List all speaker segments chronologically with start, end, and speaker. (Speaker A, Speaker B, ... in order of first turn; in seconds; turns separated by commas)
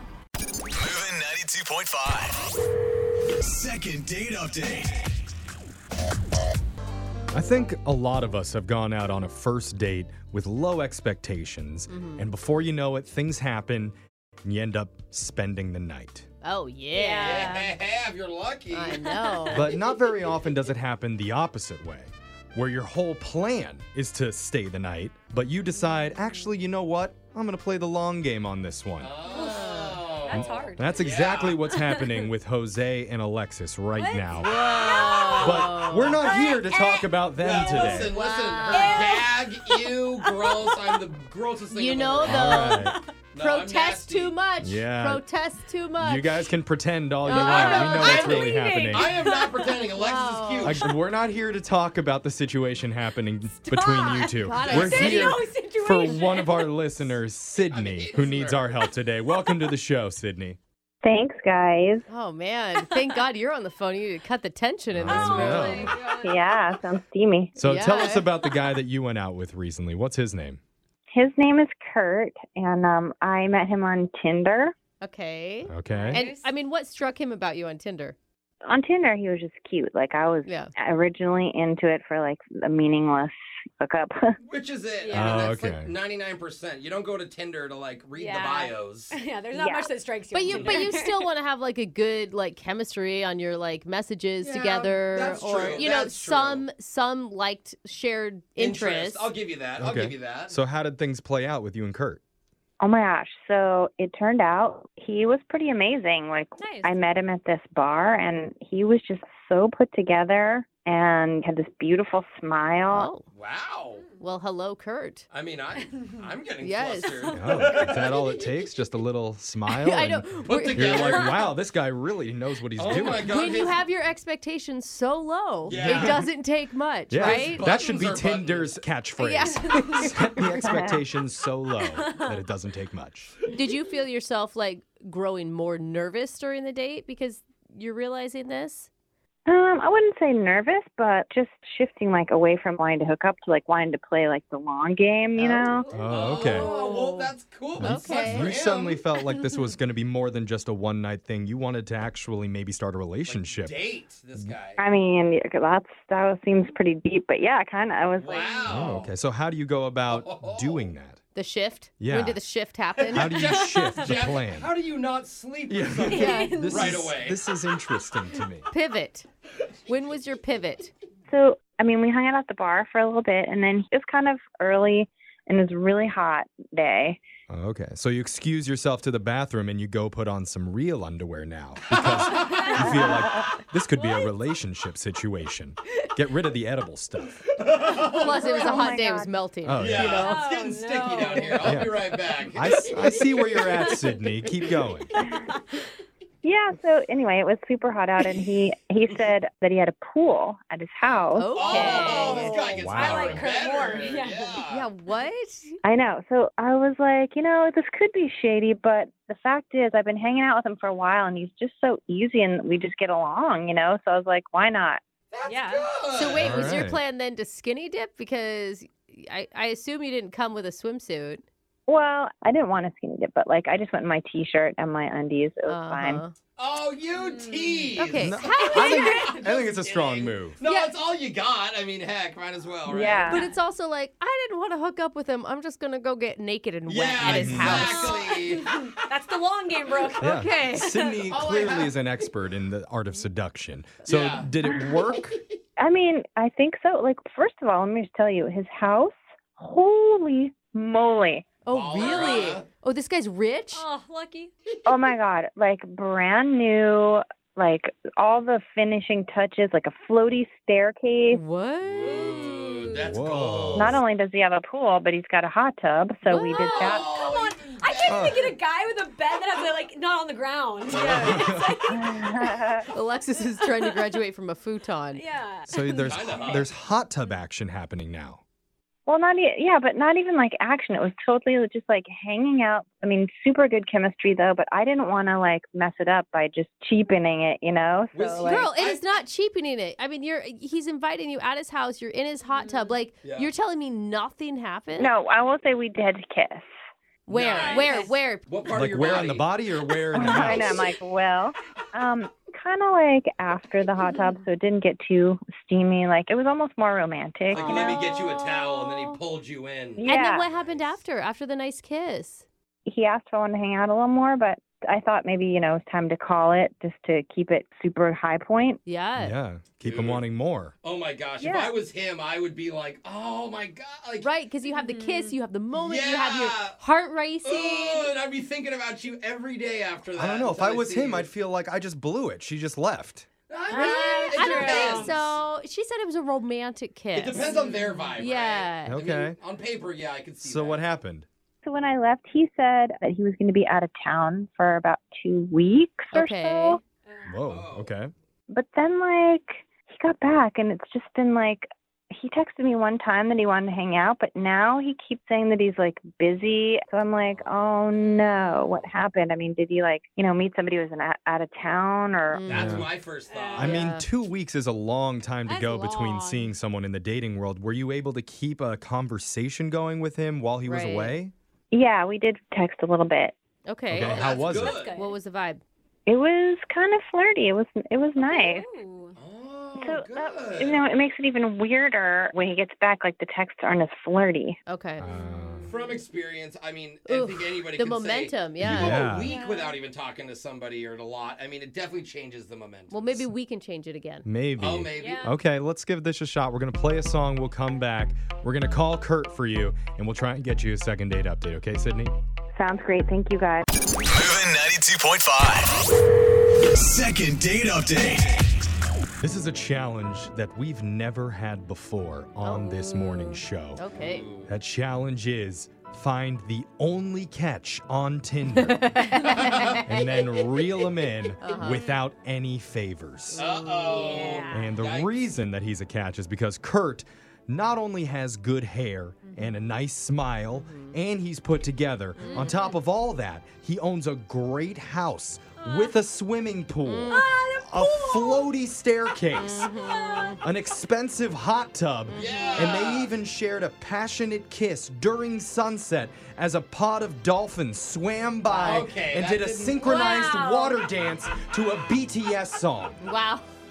Speaker A: 0.7-2.4, Speaker A: 3.4-5.1, Speaker B: 7.3-16.3, Speaker C: 11.9-12.3, Speaker C: 16.4-17.5, Speaker D: 16.9-17.7, Speaker E: 17.2-19.4, Speaker C: 18.7-19.7, Speaker B: 19.5-29.1, Speaker E: 29.0-31.6, Speaker D: 29.2-31.0, Speaker C: 29.3-30.0, Speaker B: 30.4-38.1, Speaker D: 31.7-32.3, Speaker D: 34.0-35.5, Speaker C: 34.4-36.2, Speaker E: 34.8-35.8, Speaker D: 36.2-37.2, Speaker E: 37.4-42.7, Speaker C: 37.9-39.2, Speaker D: 38.6-41.0, Speaker C: 41.7-46.3, Speaker B: 42.2-43.0, Speaker D: 42.8-43.1, Speaker E: 43.3-44.4, Speaker B: 44.6-45.2, Speaker B: 46.0-49.1, Speaker C: 47.2-48.2, Speaker E: 47.3-50.8, Speaker D: 47.3-49.8, Speaker C: 49.9-50.8, Speaker B: 50.6-60.6, Speaker D: 53.7-56.7, Speaker C: 54.2-55.4, Speaker E: 57.7-58.9, Speaker F: 61.0-62.0, Speaker C: 62.1-65.9, Speaker B: 64.9-66.0, Speaker D: 65.1-66.8, Speaker F: 66.2-67.5, Speaker B: 67.6-70.6, Speaker C: 67.6-68.3, Speaker F: 71.1-74.7, Speaker C: 75.0-78.2, Speaker B: 75.7-76.2, Speaker D: 75.9-76.5, Speaker F: 78.6-84.4, Speaker E: 84.4-89.1, Speaker D: 85.0-85.5, Speaker B: 85.1-85.9, Speaker D: 88.2-91.3, Speaker F: 89.5-89.9, Speaker C: 90.3-99.3, Speaker E: 90.5-90.9, Speaker E: 94.4-96.6, Speaker E: 98.6-100.6, Speaker B: 99.8-102.2, Speaker F: 102.8-113.1, Speaker D: 106.6-107.0, Speaker C: 112.9-113.2, Speaker E: 113.3-114.0, Speaker C: 114.2-115.3, Speaker E: 115.3-118.1, Speaker C: 116.6-117.3, Speaker B: 117.3-123.4, Speaker C: 119.7-121.5, Speaker E: 120.4-121.5, Speaker E: 122.8-123.8, Speaker C: 123.2-127.6, Speaker E: 125.7-126.3, Speaker B: 125.7-126.3, Speaker B: 127.1-133.3, Speaker E: 127.2-128.8, Speaker C: 129.2-130.1, Speaker F: 130.4-131.0, Speaker D: 131.9-132.4, Speaker C: 133.5-138.9, Speaker F: 139.5-145.8, Speaker C: 145.4-148.5, Speaker B: 145.9-146.7, Speaker E: 146.1-149.0, Speaker B: 147.8-153.8, Speaker E: 153.2-154.8, Speaker F: 154.8-158.9, Speaker E: 158.2-159.1, Speaker B: 158.7-161.2, Speaker E: 160.1-160.9, Speaker C: 161.3-163.5, Speaker B: 162.0-162.4, Speaker E: 163.0-167.4, Speaker B: 163.1-164.7, Speaker B: 165.7-168.7, Speaker D: 166.1-167.0, Speaker C: 168.7-169.2, Speaker C: 169.9-170.9, Speaker F: 171.3-177.2, Speaker B: 177.5-187.4, Speaker E: 181.9-183.1, Speaker D: 182.5-182.9, Speaker F: 182.9-183.1, Speaker D: 184.0-184.3, Speaker E: 187.5-188.7, Speaker F: 188.1-189.3, Speaker C: 188.1-190.4, Speaker B: 189.6-190.2, Speaker E: 189.8-194.0, Speaker D: 190.1-191.8, Speaker B: 191.6-192.0, Speaker B: 192.5-195.1, Speaker D: 193.6-194.2, Speaker D: 195.2-195.8, Speaker F: 196.4-202.5, Speaker E: 201.0-204.9, Speaker C: 201.3-202.7, Speaker D: 201.6-204.6, Speaker B: 202.6-203.5, Speaker C: 204.7-205.8, Speaker F: 205.8-215.0, Speaker E: 215.3-216.8, Speaker D: 215.4-215.9, Speaker C: 216.1-221.4, Speaker B: 216.3-217.0, Speaker F: 221.9-226.2, Speaker C: 225.7-226.3, Speaker E: 226.6-233.3, Speaker D: 227.1-228.0, Speaker C: 228.0-229.2, Speaker B: 228.1-230.6, Speaker D: 228.6-229.4, Speaker F: 232.8-233.4, Speaker D: 233.2-233.6, Speaker C: 233.3-238.2, Speaker E: 236.8-238.8, Speaker B: 237.2-238.0, Speaker D: 238.0-240.4, Speaker B: 240.2-245.4, Speaker C: 240.2-240.9, Speaker E: 241.3-242.0, Speaker E: 244.0-244.5, Speaker F: 245.8-251.5, Speaker C: 251.6-253.8, Speaker E: 251.7-252.7, Speaker D: 253.7-254.5, Speaker F: 254.8-261.4, Speaker C: 261.3-262.2, Speaker E: 261.8-263.9, Speaker D: 262.0-263.1, Speaker B: 263.0-264.0, Speaker F: 263.7-267.1, Speaker C: 266.3-266.6, Speaker D: 266.3-272.5, Speaker E: 266.7-268.5, Speaker B: 268.1-268.5, Speaker B: 270.9-271.7, Speaker E: 270.9-271.4, Speaker F: 271.9-272.9, Speaker C: 272.9-275.2, Speaker D: 273.6-274.2, Speaker D: 275.1-276.6, Speaker B: 275.7-278.4, Speaker E: 276.1-276.7, Speaker F: 279.1-288.6, Speaker E: 288.1-289.1, Speaker C: 288.4-295.1, Speaker D: 292.5-293.0, Speaker E: 293.2-293.5, Speaker F: 294.9-296.7, Speaker C: 297.2-298.4, Speaker E: 297.3-297.9, Speaker D: 297.7-298.2, Speaker E: 298.4-299.5, Speaker B: 298.7-300.9, Speaker F: 300.1-308.1, Speaker E: 307.5-311.0, Speaker C: 307.7-309.2, Speaker F: 309.9-310.5, Speaker C: 310.1-312.4, Speaker F: 312.9-318.8, Speaker C: 318.9-319.4, Speaker B: 319.2-320.7, Speaker E: 319.8-320.2, Speaker E: 320.8-324.3, Speaker F: 321.4-321.7, Speaker C: 324.2-328.1, Speaker D: 324.6-325.4, Speaker E: 325.7-326.8, Speaker E: 327.4-331.3, Speaker B: 330.1-333.3, Speaker E: 333.5-335.3, Speaker D: 333.7-335.2, Speaker C: 333.7-337.5, Speaker E: 337.1-340.8, Speaker D: 337.4-338.2, Speaker C: 338.2-339.0, Speaker B: 338.8-339.4, Speaker B: 340.4-341.3, Speaker F: 341.6-346.8, Speaker C: 346.1-346.8, Speaker D: 347.1-347.4, Speaker B: 347.2-348.1, Speaker E: 347.4-347.9, Speaker F: 348.5-362.8, Speaker E: 357.2-358.9, Speaker C: 362.3-362.9, Speaker E: 362.5-363.8, Speaker B: 362.5-362.9, Speaker D: 363.3-363.8, Speaker B: 363.5-371.3, Speaker C: 363.6-364.1, Speaker D: 365.4-366.5, Speaker C: 370.6-371.1, Speaker F: 371.7-373.3, Speaker C: 373.7-374.3, Speaker B: 373.9-374.8, Speaker E: 373.9-374.9, Speaker D: 374.6-375.1, Speaker C: 374.9-375.6, Speaker F: 376.1-378.6, Speaker D: 378.2-379.2, Speaker E: 379.1-380.8, Speaker F: 379.7-384.6, Speaker C: 384.7-385.2, Speaker B: 385.0-385.7, Speaker E: 385.7-393.3, Speaker C: 387.1-389.1, Speaker B: 388.6-389.3, Speaker D: 389.2-389.8, Speaker C: 392.9-394.2, Speaker B: 394.2-402.1, Speaker E: 394.6-395.3, Speaker D: 395.0-395.3, Speaker F: 402.5-403.7, Speaker A: 404.1-405.7, Speaker A: 406.7-408.5, Speaker B: 409.2-413.8, Speaker C: 412.4-414.2, Speaker E: 414.0-414.5, Speaker B: 414.5-418.9, Speaker C: 418.6-419.8, Speaker D: 419.1-420.3, Speaker E: 419.4-419.8, Speaker B: 419.8-423.4, Speaker C: 421.4-421.8, Speaker D: 421.4-421.9, Speaker C: 423.3-424.4, Speaker E: 423.4-425.3, Speaker D: 423.9-424.7, Speaker B: 424.5-439.7, Speaker D: 429.2-429.6, Speaker C: 430.5-431.0, Speaker C: 432.2-432.8, Speaker D: 432.3-432.6, Speaker D: 435.6-435.9, Speaker C: 436.8-437.2, Speaker D: 437.1-438.5, Speaker C: 439.3-440.4, Speaker D: 439.8-440.4, Speaker B: 440.4-453.0, Speaker C: 442.1-442.8, Speaker E: 442.1-443.1, Speaker E: 448.5-449.8, Speaker D: 449.8-450.8, Speaker C: 453.0-453.4